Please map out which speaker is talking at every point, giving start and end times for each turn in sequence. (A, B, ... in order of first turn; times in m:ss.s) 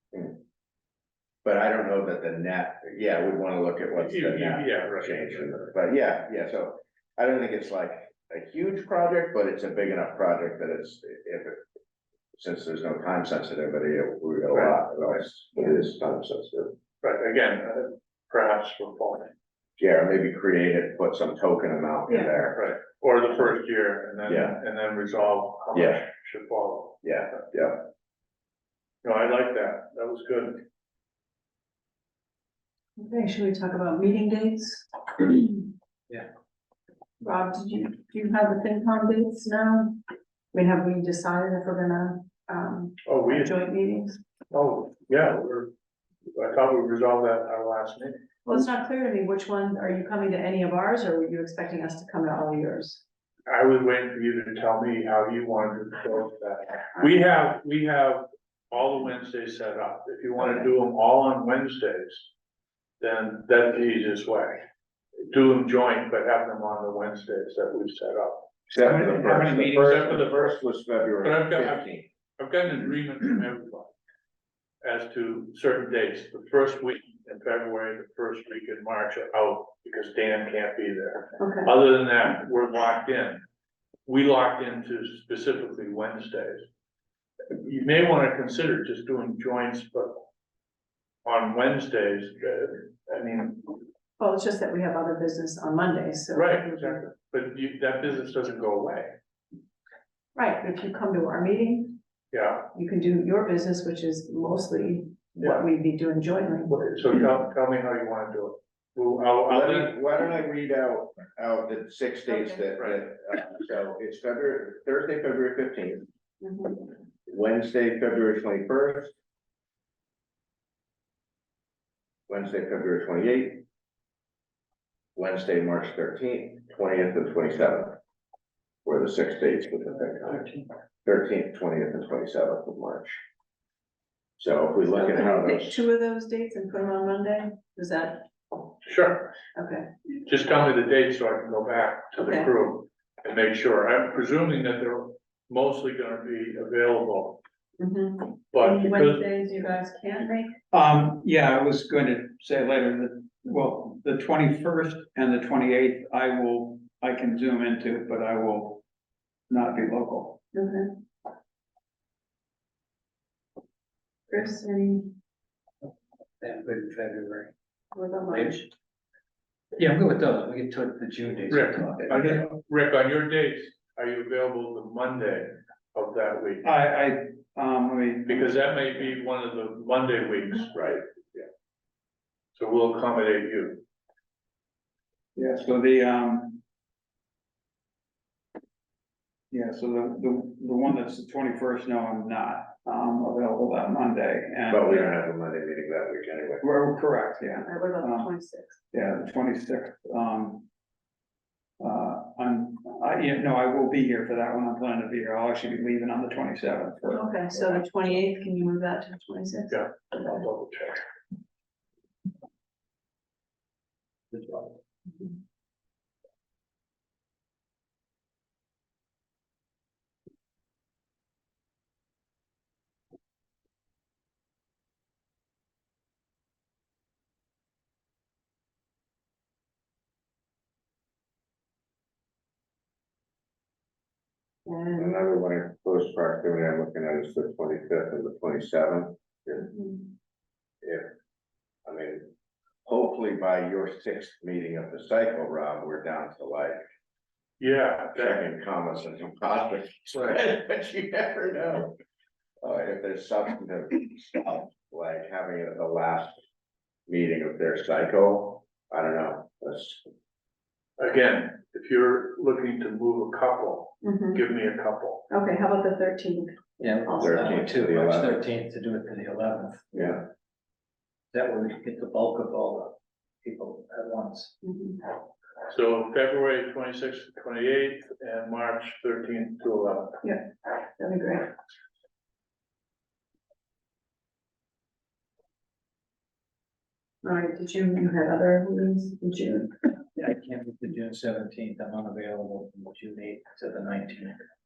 0:00.1-0:00.4 A
0:01.4-0:11.6 A
0:04.0-0:05.6 B
0:12.3-0:16.7 A
0:14.5-0:14.8 B
0:17.0-0:19.3 B
0:19.8-0:22.6 A
0:22.5-0:27.0 B
0:24.3-0:24.6 A
0:25.7-0:26.0 A
0:27.0-0:27.9 A
0:29.0-0:30.6 B
0:33.0-0:35.7 C
0:37.2-0:40.0 C
0:40.5-0:44.2 C
0:43.0-0:43.5 B
0:44.5-0:45.7 B
0:46.3-0:48.2 B
0:48.4-0:53.0 C
0:53.5-1:02.3 B
1:03.0-1:04.6 B
1:05.3-1:08.5 B
1:08.7-1:12.0 A
1:08.8-1:10.2 D
1:09.7-1:10.6 B
1:11.2-1:13.9 B
1:14.8-1:23.4 B
1:21.4-1:21.7 C
1:24.0-1:26.6 B
1:27.6-1:30.2 B
1:31.2-1:33.8 B
1:34.2-1:37.0 C
1:36.3-1:39.1 B
1:40.3-1:42.0 C
1:42.3-1:42.7 B
1:42.7-1:46.8 C
1:45.4-1:45.6 B
1:46.7-1:50.0 B
1:49.5-1:56.0 A
1:52.3-1:52.6 C
1:52.8-1:53.0 B
1:56.4-1:56.9 C
1:57.3-1:59.1 A
2:02.3-2:03.6 A
2:05.1-2:08.0 A
2:08.8-2:13.2 A
2:14.4-2:15.8 A
2:14.9-2:18.3 C
2:18.8-2:19.3 B
2:19.6-2:19.9 C
2:20.2-2:27.4 B
2:22.2-2:22.5 C
2:27.8-2:30.6 C
2:28.5-2:29.2 B
2:30.7-2:38.8 D
2:39.5-2:40.4 D
2:40.5-2:41.0 C
2:44.3-2:45.1 C
2:46.4-2:47.5 E
2:47.9-2:48.6 C
2:48.3-2:48.7 E
2:49.8-2:52.4 E
2:51.5-2:56.7 B
2:56.6-2:59.0 D
2:58.3-3:01.0 B
3:02.5-3:03.8 B
3:05.3-3:06.6 D
3:09.5-3:15.1 D
3:14.7-3:16.6 A
3:16.6-3:18.3 D
3:17.6-3:18.8 C
3:18.9-3:20.7 D
3:21.8-3:27.8 D
3:27.1-3:29.8 C
3:29.7-3:31.0 B
3:34.3-3:34.7 E
3:54.6-3:55.4 C
3:55.0-3:59.7 A
3:59.7-4:00.1 C
4:00.8-4:01.1 A
4:01.8-4:02.3 A
4:02.8-4:06.8 A
4:07.6-4:08.4 B
4:08.1-4:11.9 A
4:12.6-4:16.4 A
4:17.1-4:20.0 A
4:21.0-4:25.2 B
4:24.0-4:24.4 C
4:25.3-4:27.6 C
4:26.8-4:30.0 E
4:27.2-4:28.5 A
4:29.9-4:30.2 A
4:31.3-4:34.5 E
4:34.6-4:35.0 C
4:35.7-4:40.2 B
4:40.2-4:41.5 C
4:47.2-4:49.8 C
4:50.1-4:54.4 E